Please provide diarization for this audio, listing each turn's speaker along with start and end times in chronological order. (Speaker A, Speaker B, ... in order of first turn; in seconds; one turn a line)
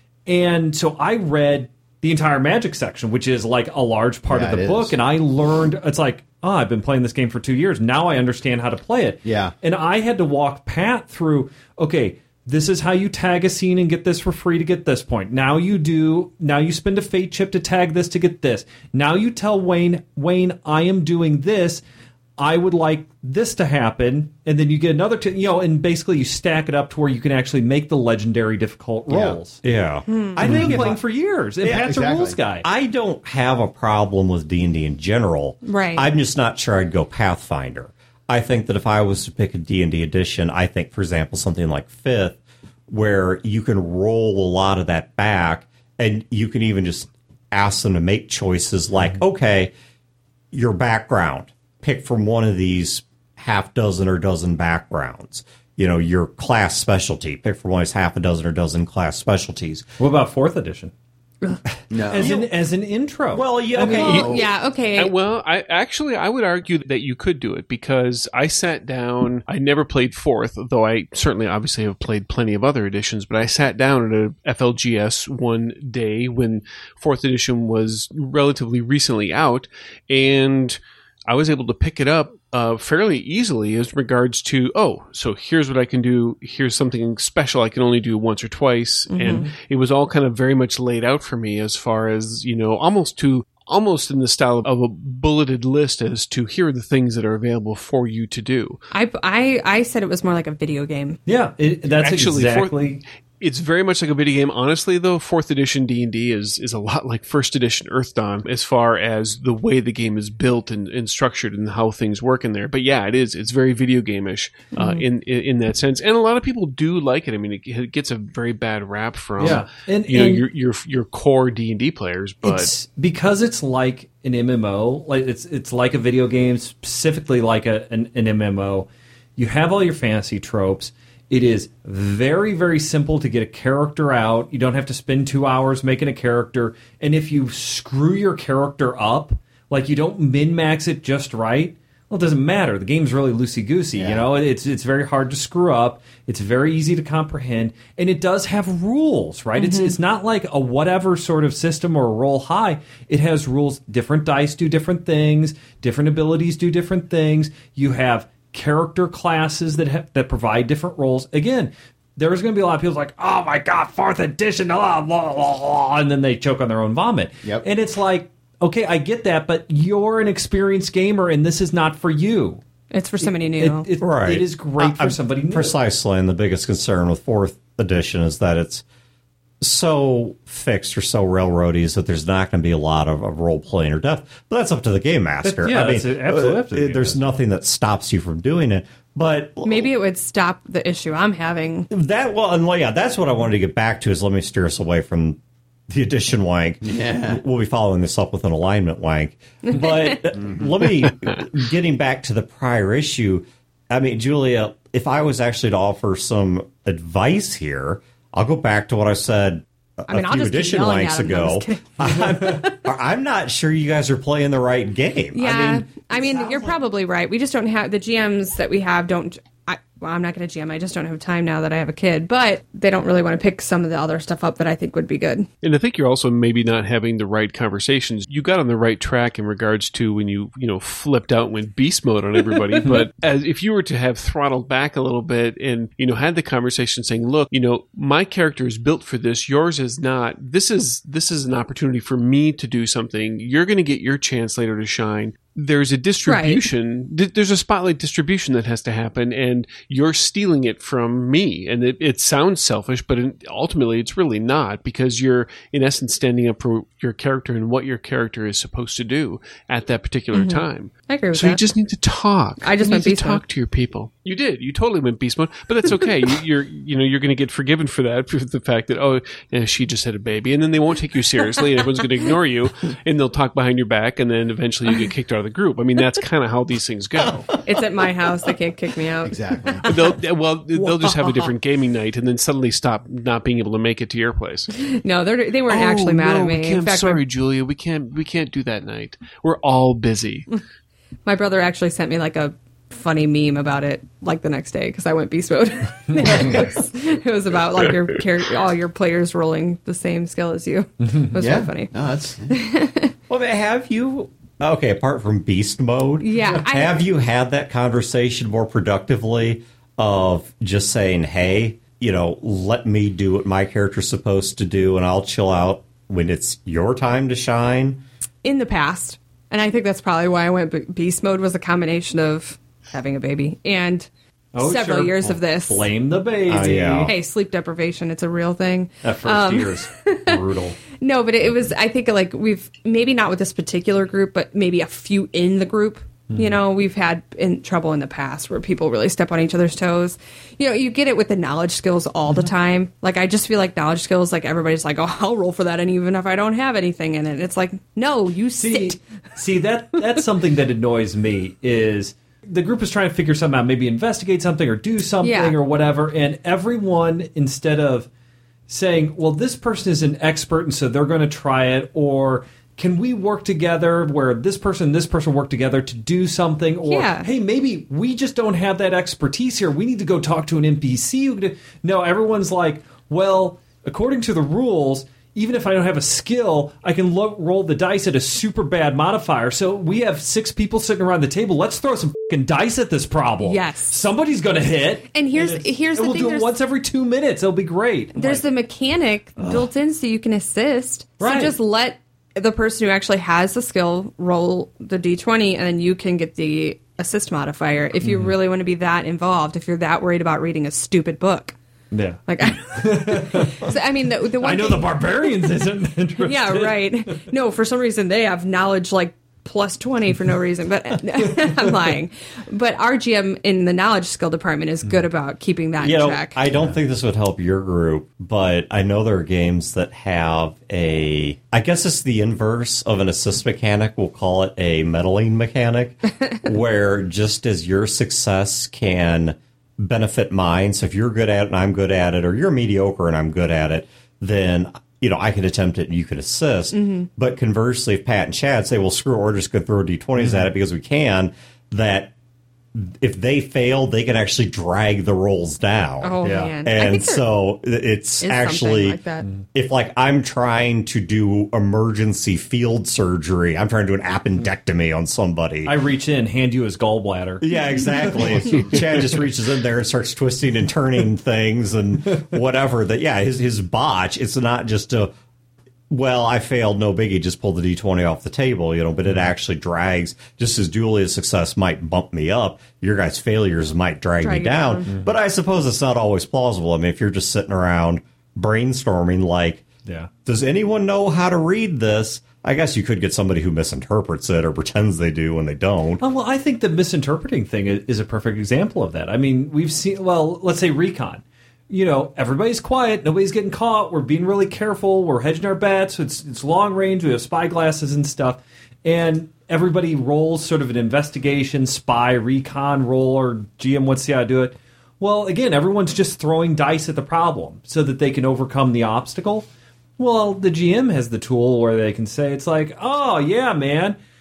Speaker A: 0.3-21.8
Speaker B: 4.3-5.0
Speaker B: 9.2-9.5
Speaker A: 22.4-29.6
Speaker B: 29.1-29.4
Speaker C: 29.6-31.0
Speaker D: 30.1-30.4
Speaker A: 30.4-32.7
Speaker B: 30.4-31.0
Speaker B: 31.6-32.4
Speaker C: 32.6-49.7
Speaker D: 35.6-36.1
Speaker C: 50.5-59.9
Speaker A: 60.0-60.9
Speaker B: 61.9-62.3
Speaker A: 62.1-64.2
Speaker C: 62.2-62.5
Speaker C: 63.3-64.4
Speaker D: 63.8-65.1
Speaker B: 63.9-64.5
Speaker E: 64.0-64.3
Speaker E: 65.0-98.8
Speaker D: 89.1-89.5
Speaker D: 98.9-101.2
Speaker A: 101.3-103.0
Speaker E: 101.9-122.7
Speaker D: 114.7-115.0
Speaker A: 119.4-120.4
Speaker A: 122.4-172.6
Speaker B: 144.0-144.2
Speaker D: 149.6-150.0
Speaker D: 172.9-173.9
Speaker A: 173.2-175.8
Speaker C: 174.0-178.8
Speaker C: 179.6-189.9
Speaker A: 185.4-187.3
Speaker D: 189.7-191.9
Speaker C: 191.9-216.7
Speaker B: 196.8-197.4
Speaker D: 199.7-200.0
Speaker D: 210.1-212.7
Speaker D: 215.3-225.5
Speaker E: 225.6-277.6
Speaker D: 246.3-246.6
Speaker D: 260.3-261.6
Speaker D: 262.6-263.4
Speaker D: 277.6-280.1
Speaker B: 279.2-279.9
Speaker E: 279.9-284.7
Speaker D: 280.8-281.5
Speaker D: 284.7-287.2
Speaker E: 285.7-290.5
Speaker D: 291.2-301.9
Speaker A: 301.0-301.3
Speaker B: 301.4-302.6
Speaker D: 302.5-303.1
Speaker C: 303.3-318.0
Speaker D: 306.2-307.0
Speaker D: 318.4-325.9
Speaker A: 324.6-327.1
Speaker C: 326.5-327.2
Speaker D: 327.1-330.4
Speaker A: 329.0-330.8
Speaker D: 330.9-349.0
Speaker A: 336.3-336.6
Speaker A: 348.6-358.1
Speaker D: 355.2-355.6
Speaker A: 358.7-388.5
Speaker D: 366.9-367.3
Speaker D: 383.4-384.0
Speaker D: 385.1-386.6
Speaker D: 388.1-401.6
Speaker A: 389.4-389.7
Speaker A: 391.2-391.6
Speaker A: 398.0-398.3
Speaker A: 401.9-403.7
Speaker D: 402.3-405.5
Speaker A: 404.4-407.2
Speaker D: 406.2-416.4
Speaker C: 415.8-442.1
Speaker D: 436.7-437.1
Speaker A: 440.2-440.5
Speaker C: 442.8-449.0
Speaker D: 446.0-447.2
Speaker A: 446.2-446.6
Speaker D: 448.2-449.3
Speaker C: 449.5-455.7
Speaker A: 455.6-458.8
Speaker C: 457.4-465.1
Speaker D: 458.1-458.7
Speaker C: 465.9-479.7
Speaker D: 474.2-475.0
Speaker C: 480.2-486.0
Speaker A: 486.0-509.5
Speaker A: 510.0-514.0